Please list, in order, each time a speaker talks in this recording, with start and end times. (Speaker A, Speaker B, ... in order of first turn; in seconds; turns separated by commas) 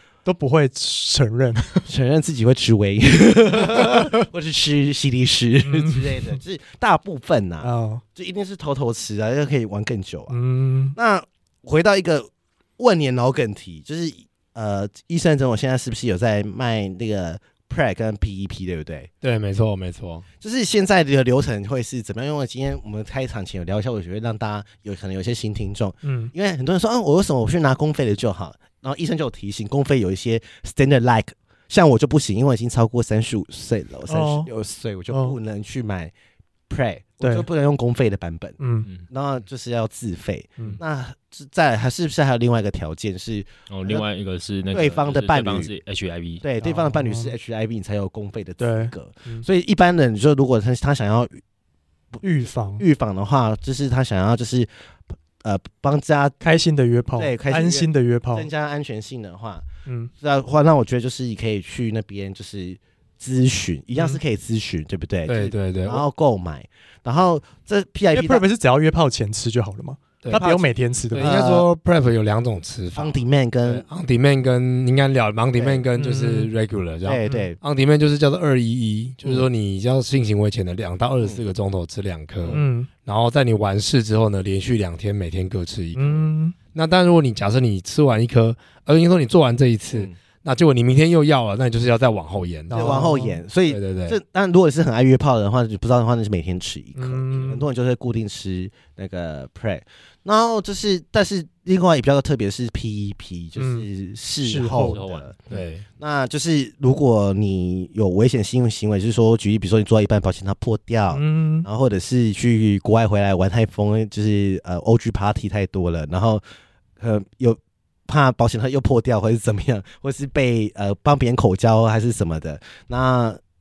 Speaker A: 0.2-1.9, Speaker B: 1.9-10.3, Speaker A: 5.6-6.4, Speaker A: 7.6-8.0, Speaker A: 10.3-10.9, Speaker B: 10.9-19.1, Speaker C: 19.2-20.2, Speaker B: 20.4-36.1, Speaker A: 26.0-26.3, Speaker A: 34.1-34.5, Speaker A: 35.1-35.4, Speaker B: 36.7-44.0, Speaker A: 37.2-37.5, Speaker A: 38.6-38.9, Speaker D: 43.7-46.4, Speaker B: 44.7-45.7, Speaker B: 46.4-51.4, Speaker A: 46.6-47.3, Speaker A: 48.6-49.5, Speaker A: 52.2-52.8, Speaker B: 52.8-54.7, Speaker B: 55.4-56.4, Speaker A: 56.4-58.5, Speaker B: 57.2-59.6, Speaker A: 59.9-60.1, Speaker B: 60.2-68.4, Speaker A: 64.0-64.2, Speaker C: 65.3-66.0, Speaker A: 68.1-71.3, Speaker B: 70.3-71.7, Speaker C: 71.1-93.1, Speaker B: 73.0-73.8, Speaker B: 75.5-75.9, Speaker A: 76.0-76.5, Speaker B: 77.0-77.6, Speaker A: 82.5-82.9, Speaker A: 86.0-86.5, Speaker A: 92.7-93.4, Speaker B: 92.7-105.4, Speaker C: 93.7-94.2, Speaker A: 97.0-97.7, Speaker D: 97.3-97.6, Speaker A: 103.6-103.9, Speaker A: 104.4-105.0, Speaker D: 104.7-105.3, Speaker C: 105.5-105.8, Speaker B: 106.0-116.4, Speaker A: 111.1-111.7, Speaker B: 117.0-123.4